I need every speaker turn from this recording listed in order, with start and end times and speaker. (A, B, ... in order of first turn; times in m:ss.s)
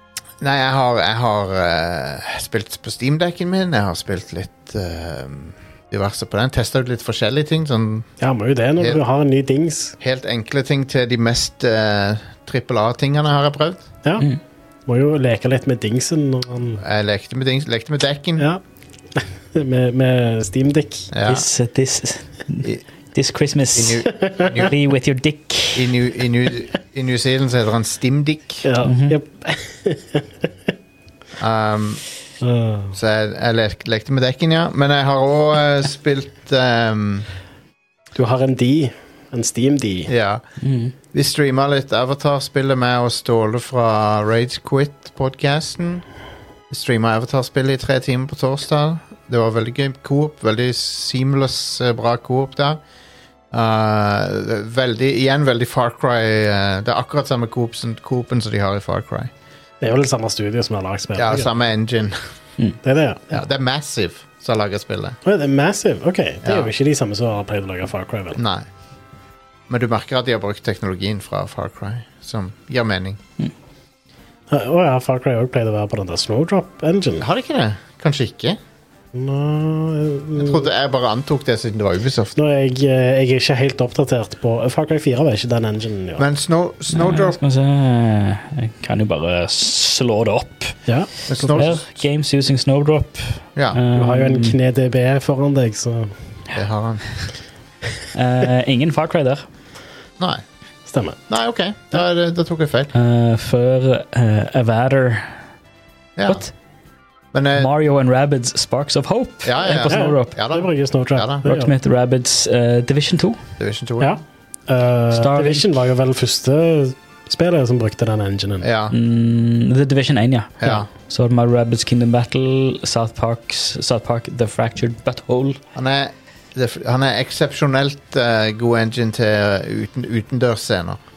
0:00.4-0:08.1 A
0:08.2-0:10.0 B
0:10.0-0:13.8 A
0:14.9-0:16.8 B
0:16.8-0:18.5 A
0:19.2-0:21.1 B
0:21.1-0:21.5 A
0:21.3-0:25.9 C
0:23.8-0:24.7 A
0:24.2-0:24.5 B
0:25.8-0:28.7 A
0:28.6-0:30.3 B
0:28.8-0:29.2 C
0:31.4-0:32.0 A
0:32.4-0:33.0 B
0:32.9-0:37.3 A
0:38.2-0:40.1 B
0:40.1-0:40.4 A
0:40.6-0:40.9 C
0:41.1-0:46.0 A
0:46.7-0:52.8 A
0:53.5-0:59.3 A
0:59.8-1:01.6 B
1:01.2-1:02.2 A
1:02.8-1:03.3 B
1:03.3-1:05.2 A
1:05.2-1:08.4 B
1:06.4-1:06.7 A
1:08.4-1:08.7 A
1:09.7-1:13.2 A
1:14.5-1:17.3 B
1:17.2-1:18.6 A
1:19.1-1:20.7 B
1:20.4-1:22.4 A
1:22.4-1:26.3 B
1:26.2-1:27.4 A
1:26.9-1:30.8 C
1:30.9-1:31.7 B
1:31.3-1:31.8 A
1:31.6-1:34.6 C
1:33.6-1:33.8 A
1:34.0-1:36.1 B
1:36.5-1:37.0 A
1:38.1-1:39.5 C
1:40.9-1:41.2 B
1:41.3-1:42.9 A
1:42.9-1:45.3 C
1:46.2-1:46.4 A
1:46.3-1:46.5 C
1:47.3-1:47.7 A
1:47.6-1:50.4 C
1:49.4-1:51.5 A
1:49.9-1:51.7 B
1:51.4-1:53.4 C
1:53.6-1:54.1 A
1:54.0-1:58.7 B
1:55.1-1:55.7 C
1:58.6-1:59.0 A
1:58.9-2:05.6 C
2:00.6-2:00.9 A
2:05.8-2:11.0 A